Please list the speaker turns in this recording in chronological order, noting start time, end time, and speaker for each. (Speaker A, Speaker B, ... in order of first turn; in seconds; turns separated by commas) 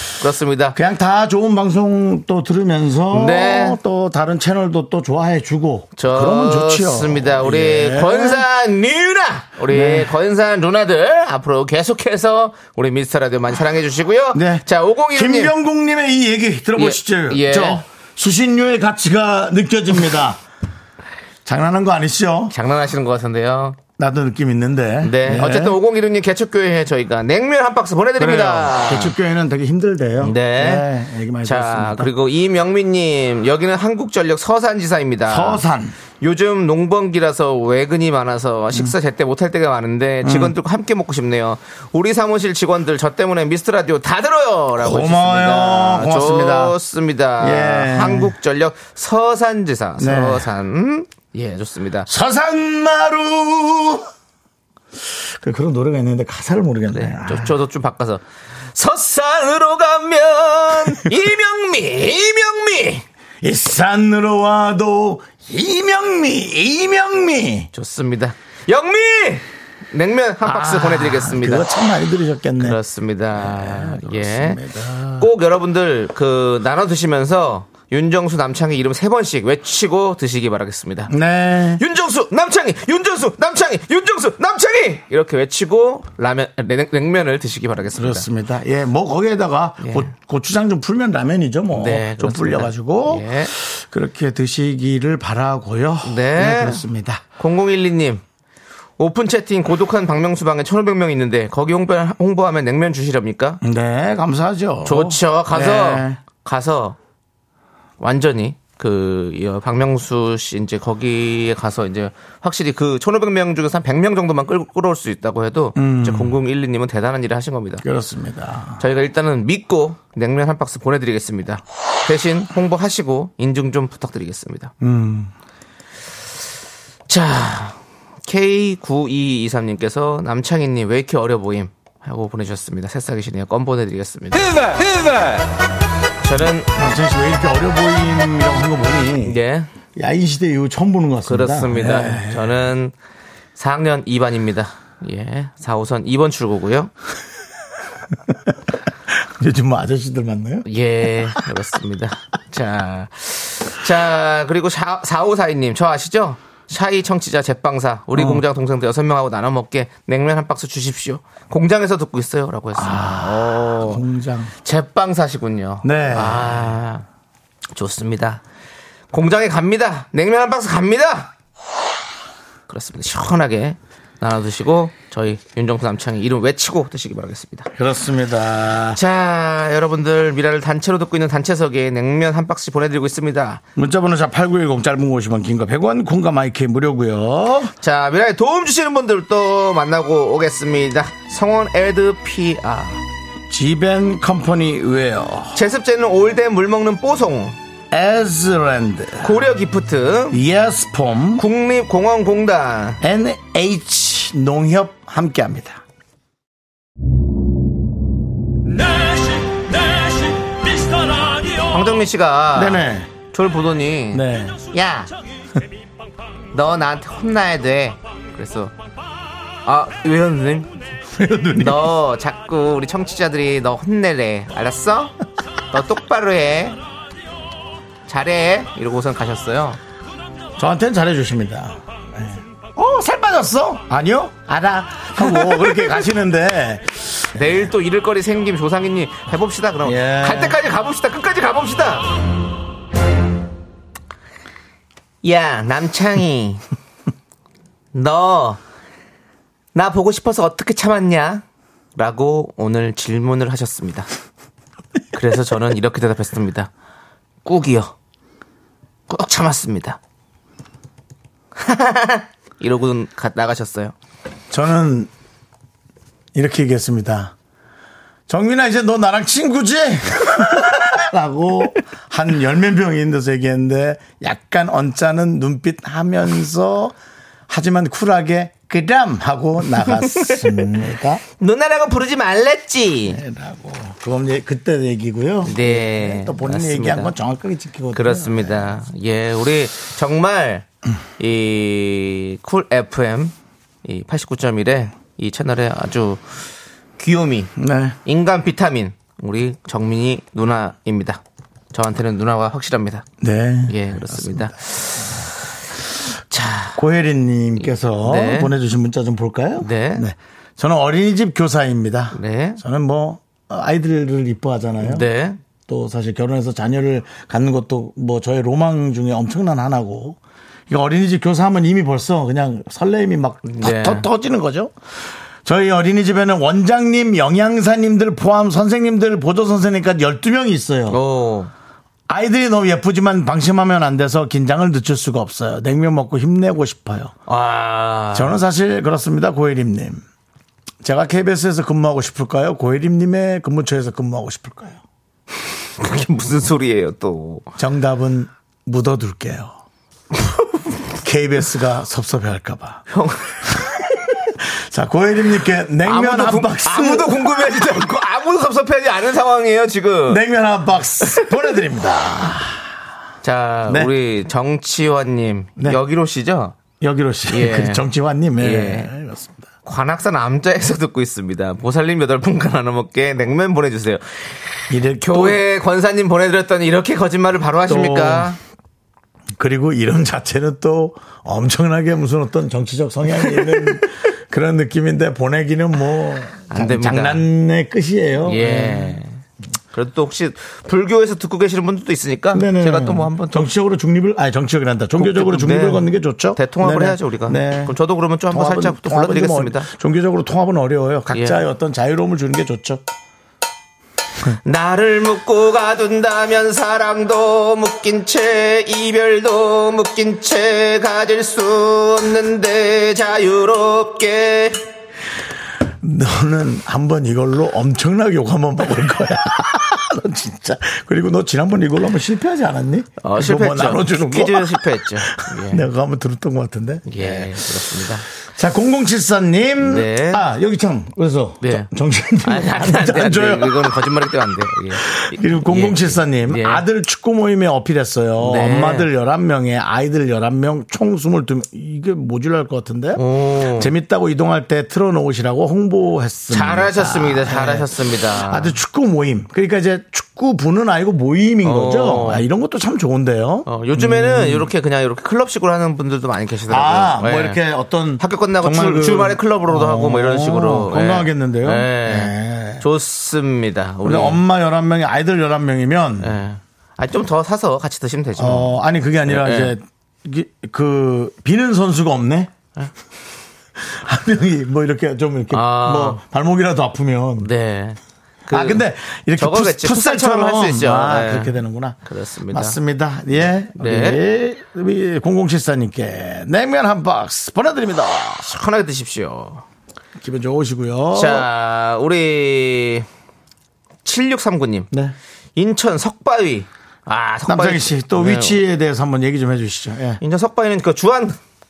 Speaker A: 0.2-0.8, Speaker B: 0.8-8.4, Speaker A: 3.1-3.8, Speaker A: 6.0-15.5, Speaker B: 9.7-10.1, Speaker B: 14.3-20.4, Speaker A: 16.8-17.9, Speaker B: 21.4-22.5, Speaker A: 22.5-23.8, Speaker B: 24.0-25.8, Speaker A: 25.0-29.1, Speaker B: 28.2-32.1, Speaker A: 30.2-30.9, Speaker A: 31.4-35.6, Speaker B: 35.3-36.0, Speaker A: 36.2-52.1, Speaker B: 40.2-40.5, Speaker B: 44.8-46.8, Speaker B: 47.4-48.3, Speaker B: 50.0-50.5, Speaker B: 52.1-54.1, Speaker B: 55.2-57.5, Speaker A: 56.9-58.2, Speaker A: 58.7-63.0, Speaker B: 63.4-67.7, Speaker A: 67.7-71.7, Speaker B: 70.4-72.8, Speaker A: 72.6-74.6, Speaker B: 73.3-75.3, Speaker A: 75.2-81.1, Speaker B: 81.1-81.8, Speaker A: 81.8-88.3, Speaker B: 87.9-97.2, Speaker A: 89.8-90.1, Speaker A: 91.7-93.5, Speaker A: 96.0-96.8, Speaker A: 97.4-98.2, Speaker A: 99.0-103.6, Speaker B: 103.6-106.2, Speaker A: 104.8-107.0, Speaker A: 108.0-117.8, Speaker B: 115.8-116.4, Speaker B: 117.8-118.8, Speaker A: 118.8-124.7, Speaker B: 124.8-125.3, Speaker A: 127.1-134.8, Speaker A: 136.2-136.7, Speaker B: 136.7-139.4, Speaker A: 139.2-139.7, Speaker B: 139.9-142.6, Speaker A: 141.3-142.9, Speaker A: 143.6-146.9, Speaker B: 149.1-150.7, Speaker A: 150.7-164.0, Speaker B: 158.1-158.4, Speaker B: 162.8-164.5, Speaker A: 164.6-167.1, Speaker B: 165.8-166.7, Speaker A: 167.7-168.4, Speaker A: 169.1-171.3, Speaker A: 172.7-177.7, Speaker B: 177.7-179.0, Speaker A: 178.9-183.6, Speaker B: 183.8-187.7, Speaker A: 187.8-193.0, Speaker B: 193.5-195.6, Speaker A: 195.5-197.6, Speaker B: 197.9-199.4, Speaker A: 199.2-200.4, Speaker B: 200.3-201.4, Speaker A: 201.4-203.0, Speaker B: 203.0-205.8, Speaker C: 208.7-211.9, Speaker A: 211.7-215.1, Speaker B: 212.5-213.1, Speaker B: 214.1-214.6, Speaker A: 216.5-218.7, Speaker A: 219.7-220.7, Speaker B: 221.1-221.9, Speaker A: 221.6-225.2, Speaker A: 225.7-226.8, Speaker A: 228.1-229.8, Speaker B: 230.6-237.6, Speaker A: 237.3-242.1, Speaker B: 239.8-240.6, Speaker A: 245.2-246.6, Speaker A: 247.9-248.6, Speaker A: 249.7-251.4, Speaker A: 252.0-254.1, Speaker A: 255.1-256.7, Speaker A: 257.4-257.9, Speaker A: 259.1-260.0, Speaker A: 261.6-263.9, Speaker B: 264.5-265.1, Speaker B: 266.4-267.3, Speaker B: 268.3-276.9, Speaker B: 277.5-281.2, Speaker A: 279.9-280.7, Speaker A: 281.4-283.2, Speaker B: 283.1-288.8, Speaker A: 285.4-287.1, Speaker A: 287.9-290.7, Speaker A: 291.2-293.3, Speaker A: 293.9-296.3, Speaker A: 297.0-297.5, Speaker B: 297.6-298.0, Speaker A: 298.1-301.2, Speaker A: 301.7-303.1, Speaker B: 303.2-304.6, Speaker A: 303.7-305.3, Speaker A: 306.3-306.8, Speaker B: 306.8-315.1, Speaker A: 308.0-308.5, Speaker A: 309.6-310.1, Speaker A: 312.1-312.6, Speaker A: 314.8-315.4, Speaker B: 315.7-324.7, Speaker A: 323.4-324.1, Speaker B: 325.4-331.0, Speaker A: 330.9-331.5, Speaker B: 332.1-337.1, Speaker A: 337.3-338.4, Speaker B: 338.1-340.0, Speaker B: 340.8-344.8, Speaker A: 345.8-347.5, Speaker B: 347.6-349.6, Speaker B: 351.0-352.9, Speaker A: 352.9-353.4, Speaker B: 353.4-357.6, Speaker A: 355.8-360.2, Speaker B: 360.1-362.6, Speaker A: 363.2-366.6, Speaker B: 363.7-363.9, Speaker B: 366.8-369.5, Speaker A: 367.3-367.9, Speaker A: 368.4-368.9, Speaker A: 369.6-378.4, Speaker B: 374.7-375.4, Speaker B: 377.7-378.4, Speaker B: 379.4-389.0, Speaker A: 386.5-387.2, Speaker A: 388.3-389.2, Speaker A: 389.7-393.5, Speaker B: 392.3-397.8, Speaker A: 395.0-399.7, Speaker B: 398.3-402.8, Speaker A: 401.1-401.4, Speaker A: 404.4-414.6, Speaker B: 415.8-433.8, Speaker A: 423.0-425.7, Speaker A: 426.9-428.1, Speaker A: 429.6-430.3, Speaker A: 431.4-431.7, Speaker A: 432.2-436.6, Speaker B: 434.7-443.0, Speaker A: 438.2-438.9, Speaker A: 442.9-443.7, Speaker B: 443.6-454.5, Speaker A: 446.3-448.6, Speaker A: 451.4-452.2, Speaker A: 453.5-457.4, Speaker B: 456.5-462.6, Speaker A: 458.0-464.2, Speaker B: 463.8-466.2, Speaker A: 466.0-469.6, Speaker B: 468.2-472.3, Speaker B: 473.6-477.3, Speaker A: 475.3-476.0, Speaker A: 477.2-478.6, Speaker B: 478.3-481.8, Speaker A: 479.2-482.6, Speaker B: 482.3-488.3, Speaker A: 483.6-484.0, Speaker A: 488.2-489.4, Speaker B: 490.0-491.3, Speaker A: 490.9-492.9, Speaker A: 493.8-494.7, Speaker A: 495.4-498.4, Speaker B: 497.3-500.0, Speaker A: 500.0-501.2